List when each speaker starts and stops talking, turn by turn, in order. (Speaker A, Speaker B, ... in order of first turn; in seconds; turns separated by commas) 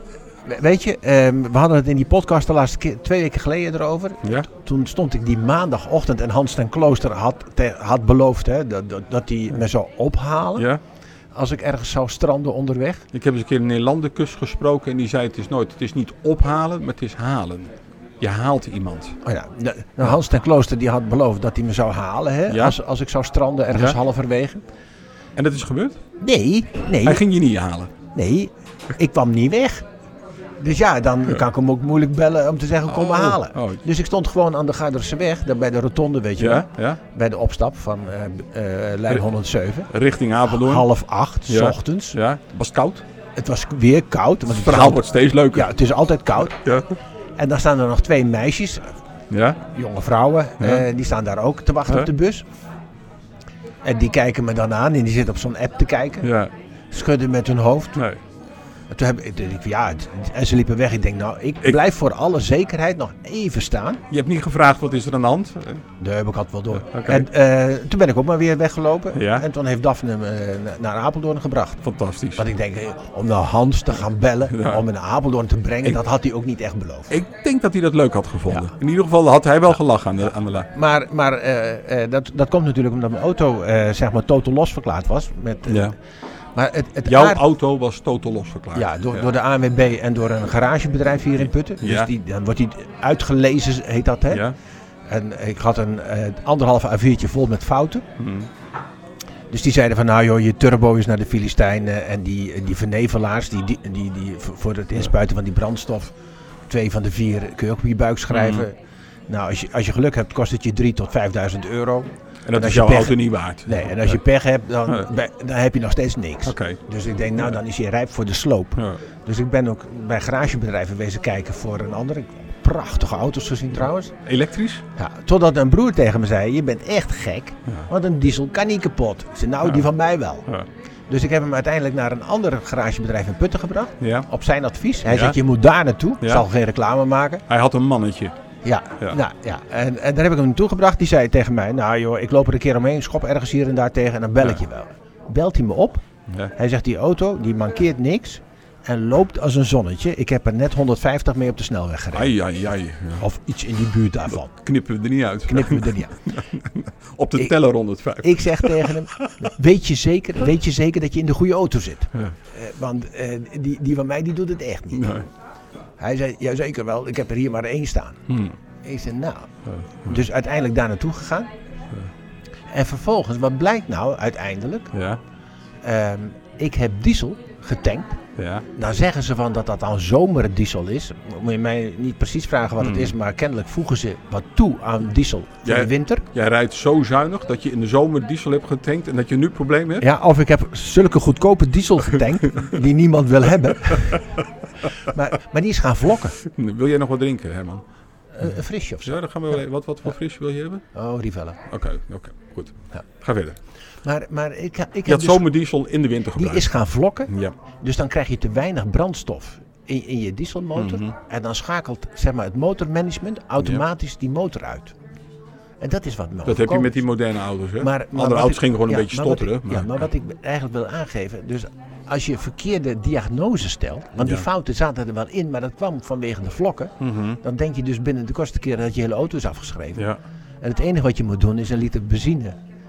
Speaker A: 0.4-10.7, Speaker A: 11.3-13.0, Speaker B: 13.1-19.2, Speaker A: 19.2-24.6, Speaker B: 22.5-22.8, Speaker B: 23.7-24.0, Speaker B: 25.4-26.0, Speaker A: 26.2-27.2, Speaker B: 27.0-27.9, Speaker A: 28.1-29.9, Speaker A: 30.6-39.9, Speaker B: 32.9-33.8, Speaker B: 36.4-37.0, Speaker B: 39.9-40.9, Speaker A: 40.4-42.2, Speaker B: 41.5-43.0, Speaker A: 43.4-46.6, Speaker B: 44.5-45.7, Speaker B: 46.5-46.9, Speaker A: 47.4-48.9, Speaker B: 49.3-49.6, Speaker A: 49.7-52.4, Speaker B: 50.6-50.9, Speaker A: 53.8-56.3, Speaker B: 56.2-56.5, Speaker A: 56.9-58.0, Speaker B: 58.0-58.2, Speaker A: 58.9-64.0, Speaker B: 64.1-65.8, Speaker A: 66.0-71.8, Speaker B: 66.8-67.3, Speaker B: 69.1-69.5, Speaker B: 71.8-72.4, Speaker A: 72.3-77.1, Speaker B: 74.5-74.8, Speaker B: 77.1-80.7, Speaker A: 80.7-85.9, Speaker B: 85.7-85.9, Speaker A: 86.5-87.4, Speaker B: 87.0-89.3, Speaker A: 88.7-94.5, Speaker B: 91.8-92.1, Speaker B: 94.3-94.5, Speaker A: 95.1-98.0, Speaker B: 98.2-98.5, Speaker A: 99.5-106.1, Speaker A: 106.7-108.8, Speaker B: 108.3-108.7, Speaker A: 109.3-124.1, Speaker B: 112.4-114.2, Speaker B: 116.4-116.8, Speaker B: 124.2-124.8, Speaker A: 125.0-130.5, Speaker A: 131.1-137.4, Speaker B: 134.0-134.2, Speaker B: 135.1-135.4, Speaker B: 136.2-136.4, Speaker B: 137.5-138.3, Speaker A: 138.6-146.0, Speaker A: 146.5-152.3, Speaker B: 152.1-153.2, Speaker A: 153.2-154.5, Speaker B: 154.5-159.5, Speaker A: 155.5-156.2, Speaker A: 158.2-165.2, Speaker B: 164.9-165.3, Speaker A: 166.0-168.2, Speaker B: 168.3-168.5, Speaker A: 168.8-169.5, Speaker B: 169.7-170.2, Speaker A: 170.0-171.5, Speaker A: 172.7-174.9, Speaker B: 174.9-175.2, Speaker A: 175.8-178.2, Speaker B: 178.4-178.6, Speaker A: 178.7-186.2, Speaker B: 182.8-183.1, Speaker B: 185.6-190.1, Speaker A: 190.0-194.2, Speaker A: 195.0-196.4, Speaker B: 196.4-197.8, Speaker A: 198.3-199.2, Speaker B: 199.0-200.8, Speaker A: 200.9-201.6, Speaker B: 201.7-203.6, Speaker A: 204.0-205.4, Speaker B: 205.1-206.7, Speaker A: 206.3-214.9, Speaker B: 207.3-207.5, Speaker B: 210.7-211.1, Speaker A: 215.8-216.9, Speaker B: 216.4-220.1, Speaker A: 217.8-232.6, Speaker B: 227.0-227.4